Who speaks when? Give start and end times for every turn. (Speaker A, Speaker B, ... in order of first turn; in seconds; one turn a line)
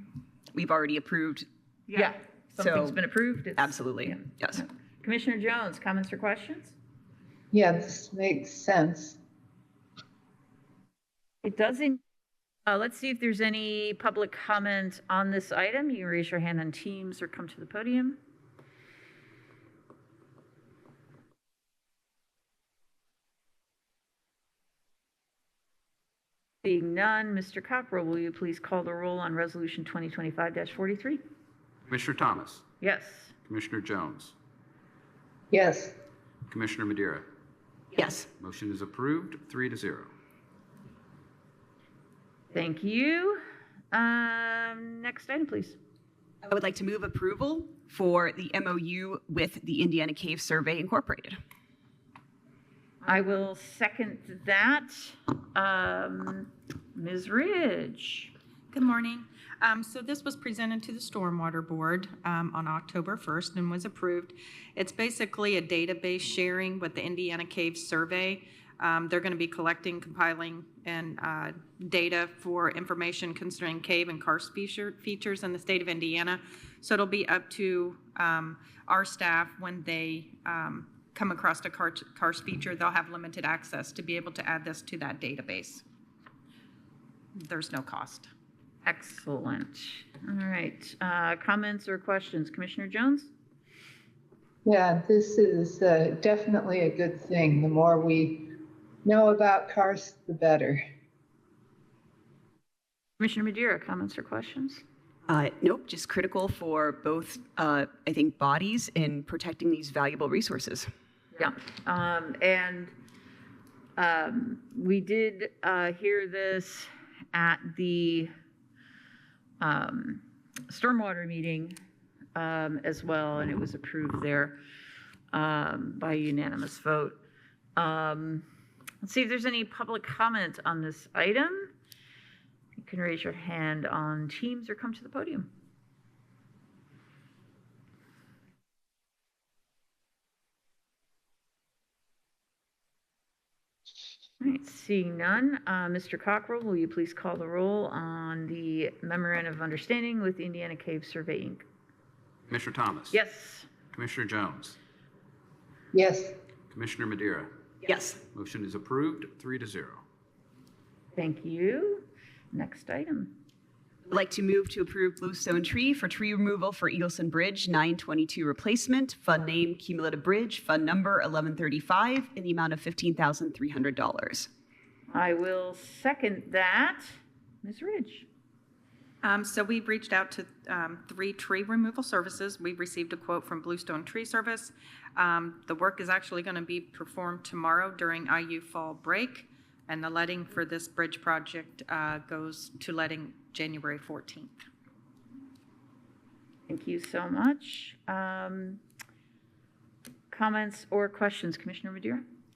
Speaker A: 0.5-1.4
Speaker B: 1.9-6.7
Speaker A: 2.6-3.0
Speaker A: 3.6-4.6
Speaker C: 7.5-9.2
Speaker B: 11.4-12.0
Speaker B: 12.7-18.2
Speaker B: 26.6-31.2
Speaker D: 31.9-32.6
Speaker B: 32.8-33.3
Speaker D: 33.5-34.3
Speaker C: 35.5-35.9
Speaker D: 36.5-37.2
Speaker A: 37.9-38.3
Speaker D: 38.3-40.1
Speaker B: 42.5-43.4
Speaker B: 43.9-45.8
Speaker A: 46.4-51.4
Speaker B: 53.0-58.3
Speaker E: 58.7-85.8
Speaker E: 87.3-88.3
Speaker B: 88.8-93.3
Speaker C: 94.6-98.4
Speaker C: 99.0-100.8
Speaker B: 103.2-104.8
Speaker A: 105.3-110.9
Speaker B: 111.3-112.9
Speaker B: 114.0-118.3
Speaker B: 119.6-121.8
Speaker B: 122.3-124.6
Speaker B: 125.3-127.2
Speaker B: 127.8-128.4
Speaker B: 129.0-131.7
Speaker B: 132.8-135.5
Speaker B: 144.4-151.6
Speaker D: 152.5-153.2
Speaker B: 153.1-153.7
Speaker D: 153.9-154.8
Speaker C: 155.9-156.3
Speaker D: 156.7-157.5
Speaker A: 157.8-158.2
Speaker D: 158.2-160.0
Speaker B: 161.2-163.3
Speaker A: 164.1-174.5
Speaker B: 175.1-178.3
Speaker E: 179.2-194.6
Speaker B: 196.7-198.8
Speaker B: 200.3-202.2